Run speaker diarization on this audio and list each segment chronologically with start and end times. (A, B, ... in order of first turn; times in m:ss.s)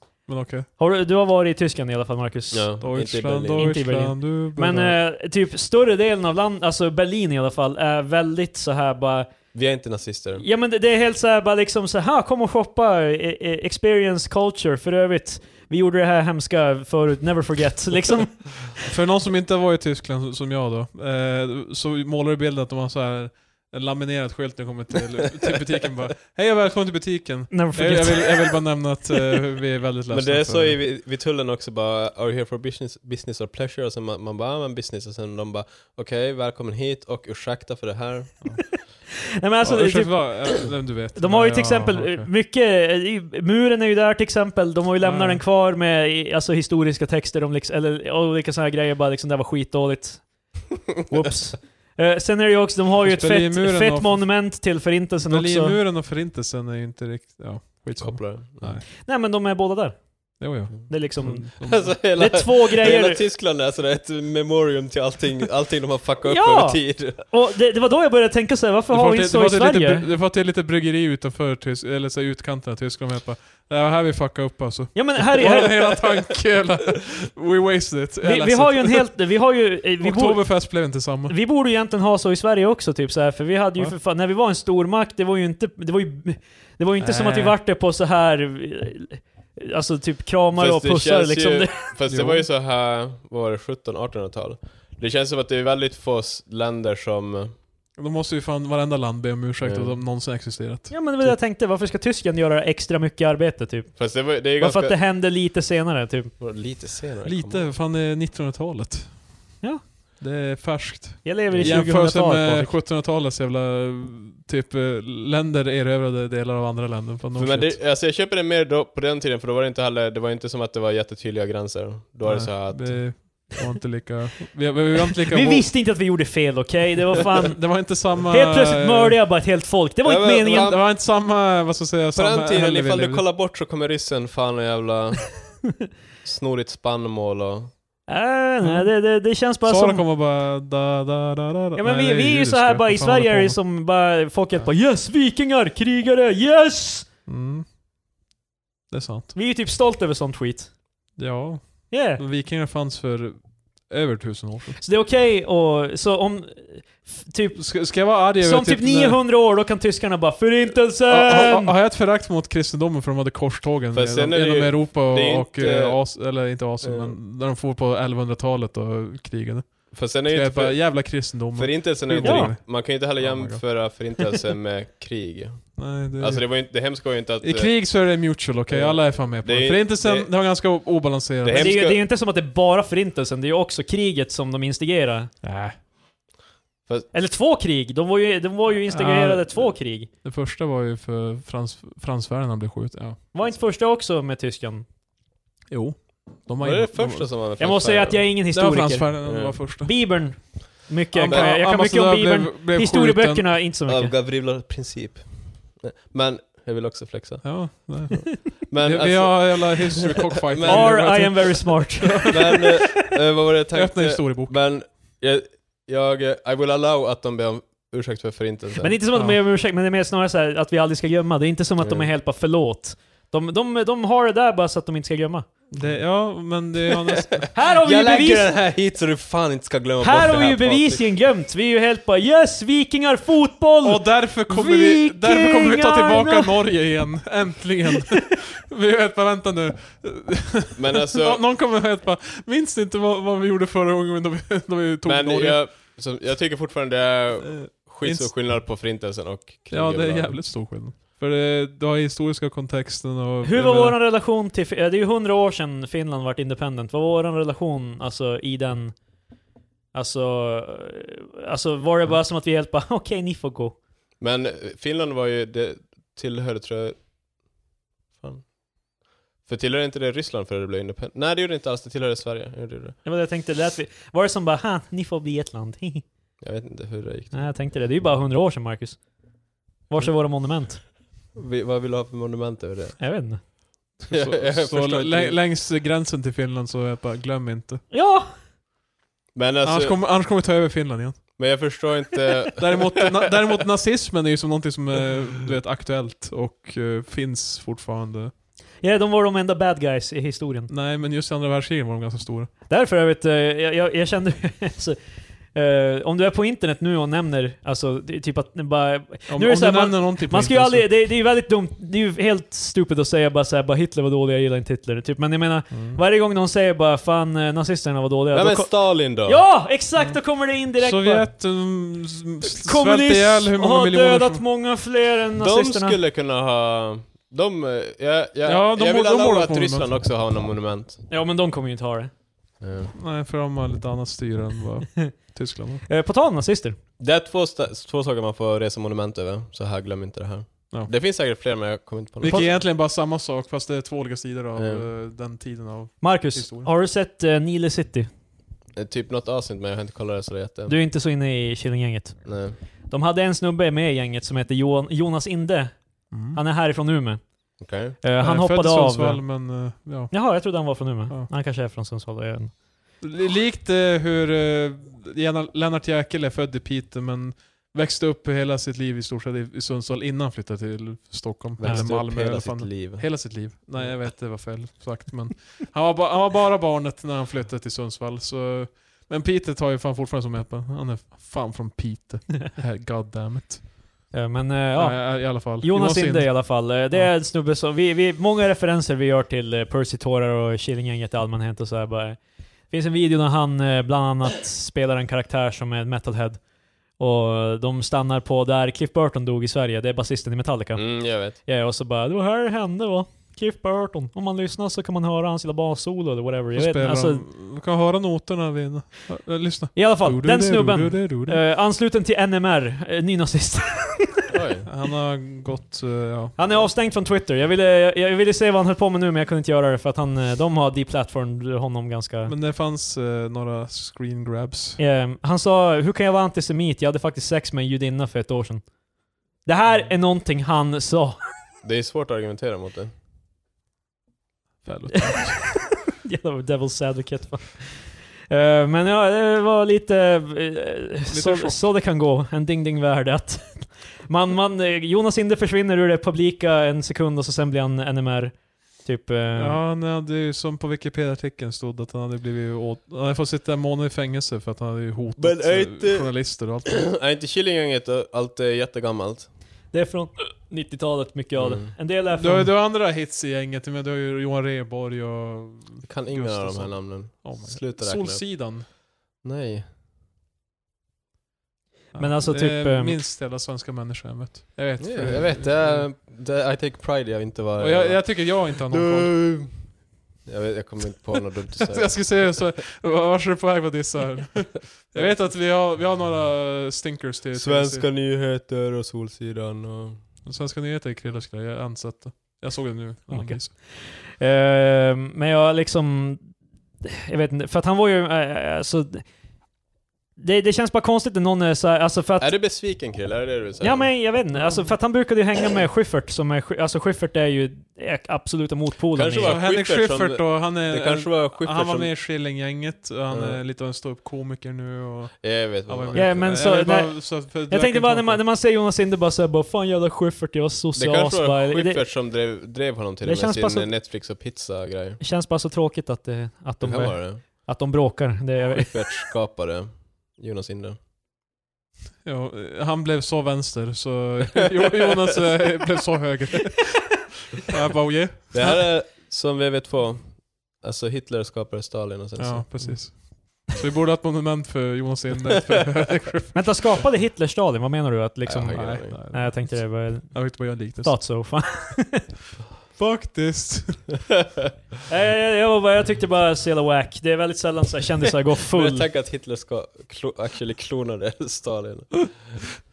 0:00.3-0:00.7 A
0:00.8-0:02.7 B
0:02.5-0:03.8 C
0:02.8-0:05.0 A
0:03.6-0:09.3 B
0:09.5-0:10.4 C
0:10.4-0:18.8 B
0:18.8-0:30.8 A
0:27.5-0:28.6 B
0:30.1-0:38.4 C
0:39.4-0:50.5 B
0:39.6-0:42.3 A
0:45.0-0:45.4 A
0:51.1-0:55.8 B
0:53.0-0:54.5 A
0:55.3-0:58.8 A
0:58.0-0:58.8 C
0:59.0-1:03.2 B
1:00.4-1:02.0 A
1:01.6-1:07.2 C
1:06.2-1:10.1 B
1:08.9-1:19.1 A
1:15.0-1:15.9 B
1:18.2-1:31.9 B
1:20.0-1:21.3 A
1:27.0-1:27.6 A
1:30.6-1:37.5 C
1:32.1-1:32.4 A
1:38.0-1:41.4 A
1:39.6-1:40.0 C
1:40.9-1:46.3 B
1:44.0-1:45.0 C
1:46.4-1:47.7 C
1:47.2-1:49.6 A
1:50.2-1:57.8 A
1:51.2-1:52.8 B
1:51.5-1:51.9 C
1:57.4-2:03.2 C
2:02.2-2:05.8 A
2:05.3-2:10.7 B
2:07.4-2:09.2 A
2:10.0-2:10.8 C
2:10.5-2:13.2 A
2:12.2-2:15.3 C
2:16.2-2:17.7 C
2:18.1-2:20.0 B
2:18.6-2:23.6 A
2:21.8-2:27.1 B
2:27.3-2:27.7 A
2:28.9-2:29.3 A
2:29.3-2:30.7 B
2:31.2-2:34.8 A
2:31.9-2:32.2 B
2:34.8-2:41.7 B
2:37.5-2:39.2 A
2:41.1-2:53.6 A
2:43.9-2:46.0 C
2:46.8-2:47.2 C
2:49.9-2:57.7 C
2:52.2-2:52.5 B
2:55.8-2:56.7 A
2:57.4-3:01.8 A
2:58.7-3:00.3 C
3:01.4-3:02.0 C
3:01.5-3:05.3 B
3:05.4-3:05.8 A
3:07.1-3:10.1 B
3:08.9-3:13.2 A
3:13.3-3:14.8 B
3:15.7-3:17.3 A
3:16.6-3:18.2 C
3:17.6-3:24.1 B
3:18.5-3:20.0 A
3:19.2-3:19.6 C
3:21.1-3:23.5 A
3:23.9-3:31.4 C
3:27.4-3:32.8 A
3:30.6-3:32.6 B
3:32.3-3:39.0 C
3:33.7-3:34.6 A
3:38.8-3:45.5 B
3:39.1-3:39.4 A
3:41.8-3:42.1 C
3:45.7-3:47.6 A
3:46.9-3:51.0 C
3:47.5-3:48.6 B
3:50.0-3:56.5 B
3:53.8-4:05.7 A
4:00.8-4:01.4 C
4:05.1-4:10.4 C
4:07.4-4:08.3 A
4:09.7-4:14.0 A
4:13.4-4:19.0 B
4:19.9-4:23.8 B
4:24.2-4:27.0 C
4:28.2-4:28.5 C
4:29.4-4:33.0 C
4:33.0-4:36.0 B
4:36.4-4:37.5 C
4:37.3-4:39.0 B
4:39.9-4:40.8 B
4:41.3-4:43.0 C
4:43.0-4:43.4 B
4:44.0-4:47.8 A
4:44.1-4:45.4 C
4:47.9-4:48.4 B
4:49.4-4:50.0 C
4:49.6-4:51.3 A
4:51.4-4:53.1 C
4:52.6-4:58.3 A
4:58.8-5:00.7 B
5:00.7-5:02.5 A
5:02.7-5:05.0 B
5:05.5-5:21.3 B
5:09.3-5:10.9 A
5:15.7-5:16.0 A
5:18.3-5:19.5 C
5:20.0-5:24.4 A
5:22.5-5:26.0 B
5:25.4-5:31.0 C
5:28.4-5:29.9 A
5:31.1-5:32.1 B
5:32.6-5:32.9 C
5:33.0-5:35.8 A
5:35.9-5:36.8 B
5:37.0-5:42.6 C
5:42.2-5:46.7 A
5:42.2-5:42.5 B
5:44.6-5:44.8 C
5:46.0-5:48.1 B
5:48.8-5:50.8 C
5:50.7-5:57.4 B
5:52.2-5:52.6 C
5:56.1-5:56.4 A
5:57.6-5:58.0 C
5:58.0-5:59.4 B
5:58.2-6:01.3 A
6:00.1-6:02.6 B
6:03.0-6:23.8 A
6:11.6-6:14.0 C
6:11.6-6:11.9 B
6:24.1-6:47.2 B
6:24.8-6:27.1 A
6:40.8-6:41.4 C
6:46.5-6:51.4 A
6:49.8-6:54.3 B
6:54.3-6:54.7 C
6:54.7-6:56.6 A
6:56.4-7:02.3 B
7:02.3-7:04.8 A
7:04.8-7:08.6 B
7:09.4-7:11.2 B
7:11.6-7:12.9 C
7:14.6-7:15.7 A
7:16.0-7:29.6 B
7:21.1-7:21.7 A
7:29.4-7:36.8 A
7:35.2-7:39.3 C
7:39.7-7:42.5 B
7:41.4-7:41.7 C
7:42.1-7:48.7 A
7:45.9-7:49.7 C
7:51.9-7:53.0 B
7:51.9-7:55.9 A
7:54.8-8:02.4 C
7:57.6-7:59.2 A
8:01.6-8:07.9 A
8:07.3-8:10.0 C
8:10.2-8:13.5 A
8:13.1-8:19.1 B
8:20.2-8:22.4 B
8:22.2-8:24.1 C
8:23.6-8:29.4 B
8:24.3-8:24.8 A
8:28.9-8:31.9 C
8:29.2-8:38.2 A
8:33.1-8:33.4 C
8:35.2-8:36.5 C
8:35.9-8:41.8 B
8:40.8-8:45.0 C
8:43.0-8:43.7 B
8:45.0-8:49.0 B
8:46.6-8:47.2 C
8:48.5-8:50.8 C
8:52.0-8:58.5 A
8:58.3-9:02.8 C
9:02.2-9:06.7 A
9:06.3-9:12.1 B
9:08.2-9:09.0 C
9:08.5-9:11.2 A
9:12.8-9:14.0 A
9:14.9-9:18.9 B
9:18.5-9:22.4 C